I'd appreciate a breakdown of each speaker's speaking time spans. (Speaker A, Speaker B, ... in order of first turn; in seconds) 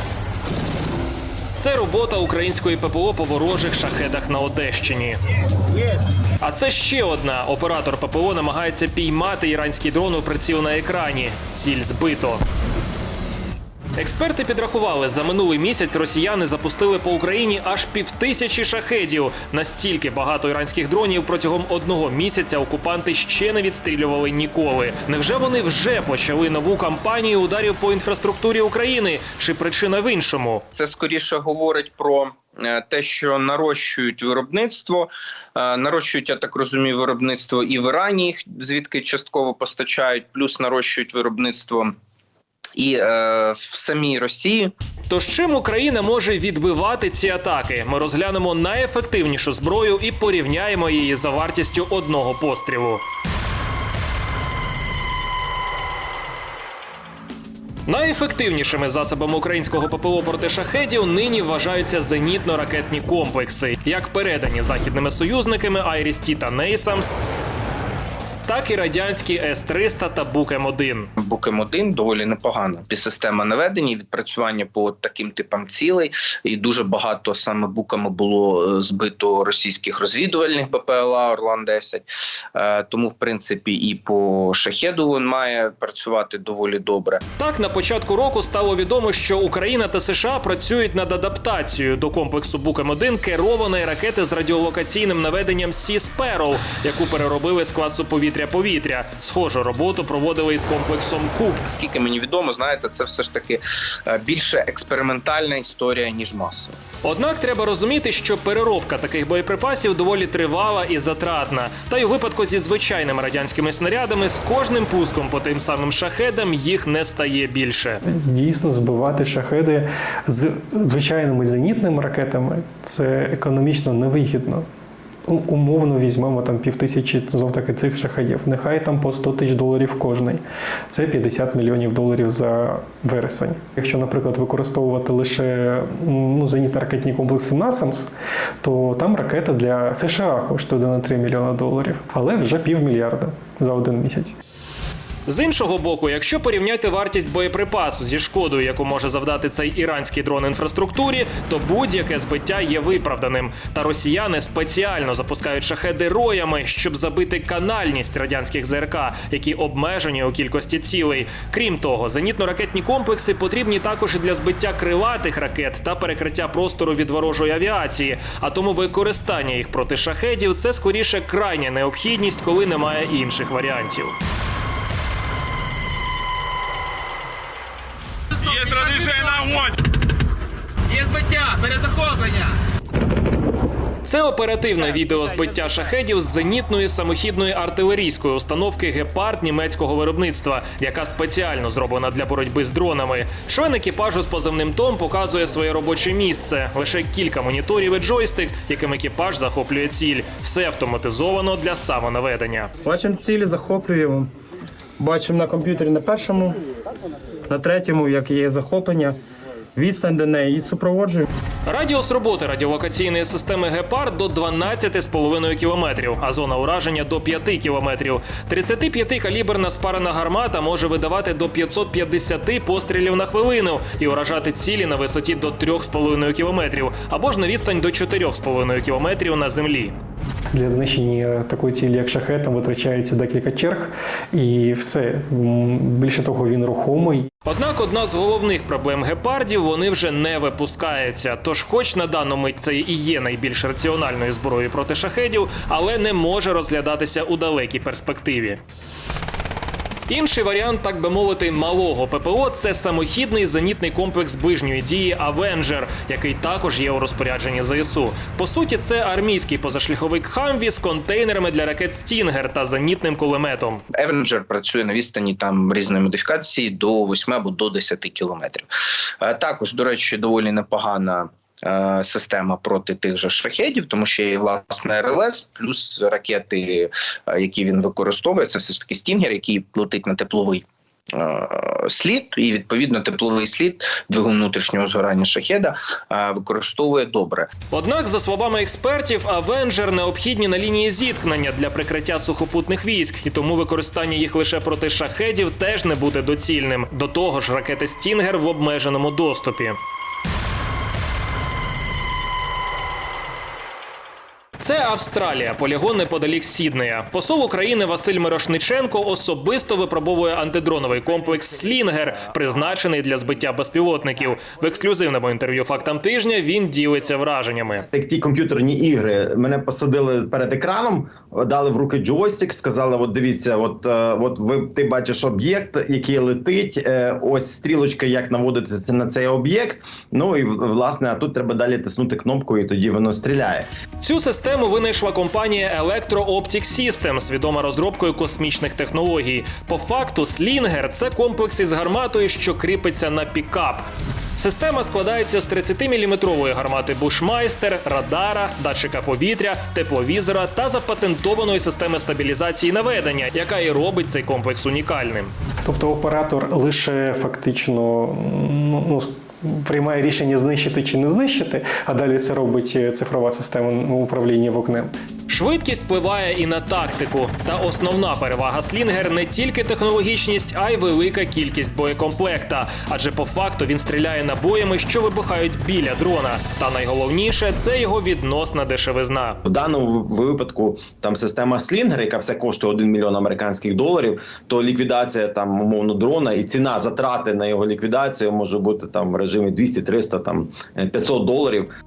Speaker A: 1.6-5.2, 6.4-12.4, 13.9-30.6, 45.1-53.0, 57.9-67.2, 68.5-71.1, 87.4-101.6, 107.0-118.0, 145.2-174.1, 178.6-179.4, 180.9-182.2, 184.0-202.7, 211.7-229.9, 237.4-248.6, 250.1-263.8, 287.7-299.8, 304.6-317.9, 334.0-343.8, 344.4-355.3, 365.3-379.4
Speaker B: 30.7-41.9, 42.8-44.7, 71.2-87.2, 101.7-106.7, 264.0-268.7, 269.2-287.5
Speaker C: 118.0-124.7, 125.2-138.1, 138.6-144.4, 230.5-237.3, 355.6-364.9
Speaker D: 178.5-179.7, 181.7-182.4
Speaker E: 202.8-204.3, 205.0-206.6, 207.5-209.2, 209.8-211.3
Speaker F: 317.9-333.7, 379.4-391.7